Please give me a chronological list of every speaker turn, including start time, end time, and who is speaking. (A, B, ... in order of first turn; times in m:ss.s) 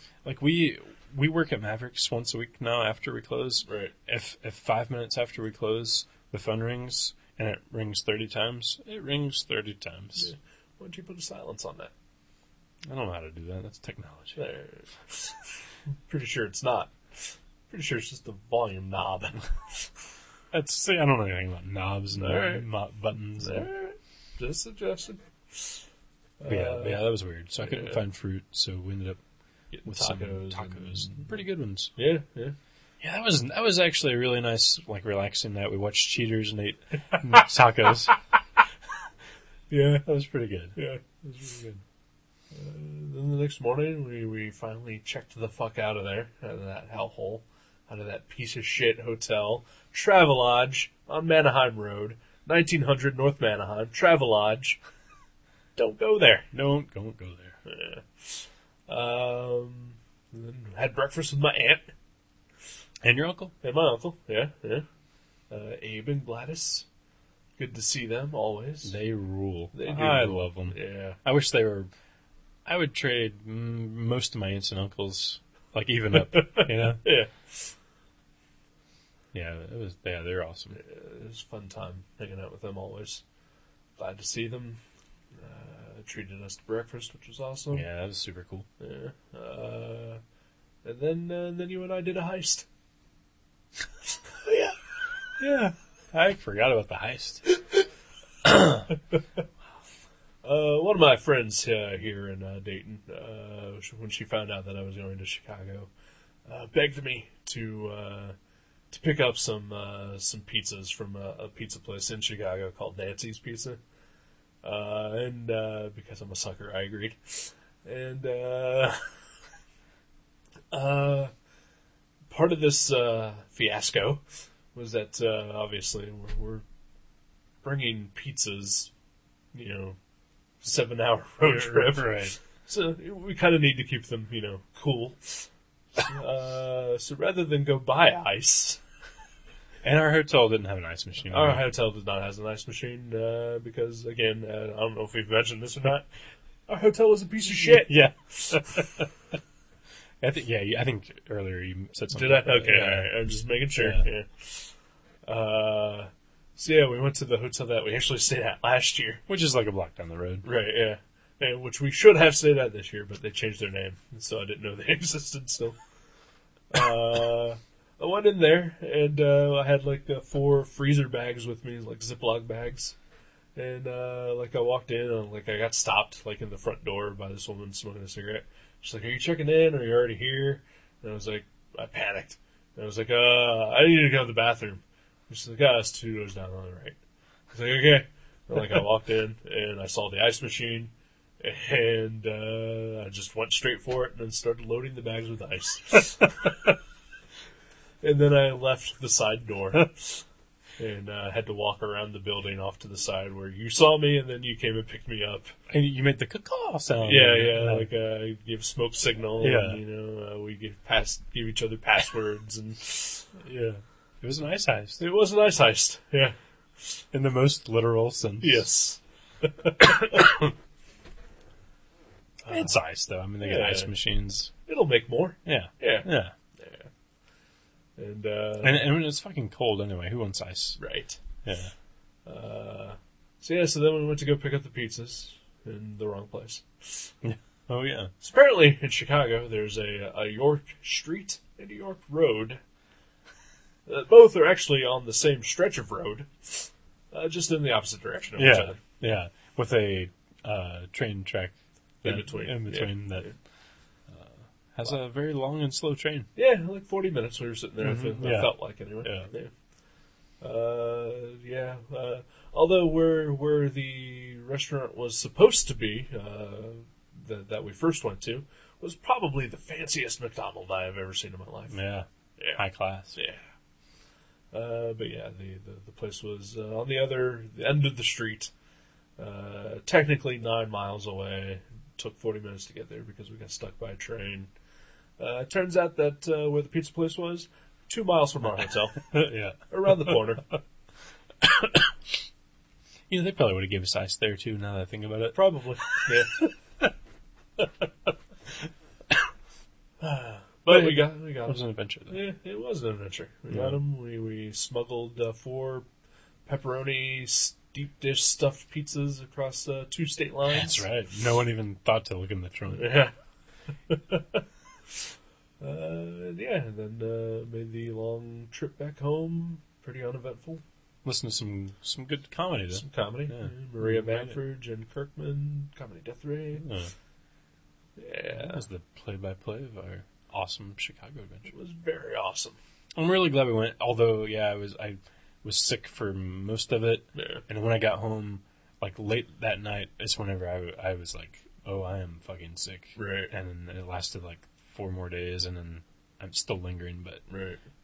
0:00.2-0:10.3 A
0:03.6-0:03.9 B
0:10.2-0:11.9 B
0:12.9-0:14.4 A
0:14.4-0:15.4 B
0:16.1-0:19.9 B
0:20.5-0:23.7 A
0:22.2-0:22.7 B
0:23.4-0:25.8 B
0:26.4-0:27.1 B
0:26.5-0:29.2 A
0:27.6-0:28.0 B
0:29.7-0:31.3 B
0:29.8-0:31.9 A
0:32.0-0:32.6 B
0:33.0-0:38.1 A
0:39.7-0:40.0 B
0:40.0-0:41.8 A
0:40.8-0:41.0 B
0:42.5-0:54.8 B
0:55.8-0:56.5 B
0:56.5-0:57.6 A
0:57.6-1:01.9 B
1:03.0-1:03.5 A
1:03.6-1:04.9 B
1:05.5-1:06.9 B
1:07.6-1:09.0 B
1:08.8-1:11.9 A
1:09.7-1:11.2 B
1:12.6-1:17.0 A
1:16.3-1:17.7 B
1:19.3-1:20.8 A
1:20.7-1:23.2 B
1:24.0-1:24.8 B
1:25.4-1:27.9 B
1:27.7-1:28.7 A
1:28.8-1:30.2 B
1:30.8-1:32.7 B
1:34.4-1:34.8 B
1:35.4-1:37.4 A
1:40.4-1:45.9 B
1:46.5-1:48.4 B
1:48.9-1:53.8 B
1:54.6-1:59.1 B
2:00.7-2:01.3 B
2:02.3-2:04.2 B
2:04.7-2:06.6 B
2:07.6-2:08.9 B
2:09.5-2:10.0 B
2:10.6-2:18.8 B
2:11.4-2:12.4 A
2:19.8-2:21.6 A
2:21.3-2:26.1 B
2:26.7-2:28.8 B
2:27.6-2:29.0 A
2:30.2-2:33.2 A
2:32.1-2:34.7 B
2:33.7-2:34.1 A
2:35.3-2:39.2 B
2:39.3-2:40.5 A
2:40.4-2:45.8 B
2:46.7-2:53.0 B
2:53.6-3:07.0 B
3:07.5-3:16.7 B
3:18.0-3:20.2 B
3:20.8-3:25.6 B
3:25.7-3:27.9 A
3:27.0-3:33.3 B
3:29.4-3:29.8 A
3:33.4-3:35.0 A
3:35.0-3:36.4 B
3:37.1-3:38.6 A
3:38.4-3:40.5 B
3:42.4-3:42.7 B
3:42.5-3:44.5 A
3:43.4-3:43.9 B
3:44.7-3:46.9 B
3:45.4-3:46.3 A
3:48.0-3:49.0 B
3:48.6-3:50.8 A
3:50.8-3:51.2 B
3:51.4-3:51.7 A
3:52.3-3:57.1 B
3:57.2-3:58.1 A
3:58.2-4:02.6 B
4:03.9-4:08.8 B
4:08.4-4:13.3 A
4:12.0-4:13.4 B
4:14.1-4:16.3 A
4:16.4-4:19.5 B
4:17.8-4:19.3 A
4:20.4-4:31.8 B
4:31.7-4:33.2 A
4:33.1-4:33.4 B
4:34.5-4:38.5 B
4:39.2-4:44.5 B
4:45.2-4:49.1 B
4:49.1-4:50.2 A
4:49.7-4:50.5 B
4:53.1-4:55.4 A
4:55.3-4:56.5 B
5:00.0-5:05.9 B
5:00.7-5:02.2 A
5:03.5-5:03.8 A
5:06.5-5:10.9 B
5:10.5-5:12.9 A
5:12.7-5:13.1 B
5:13.9-5:14.4 B
5:15.6-5:20.6 B
5:21.0-5:24.4 A
5:22.7-5:26.7 B
5:26.6-5:26.9 A
5:28.0-5:28.6 B
5:28.3-5:31.5 A
5:31.5-5:32.6 B
5:33.0-5:47.2 A
5:37.2-5:37.4 B
5:43.0-5:43.3 B
5:47.3-5:47.6 B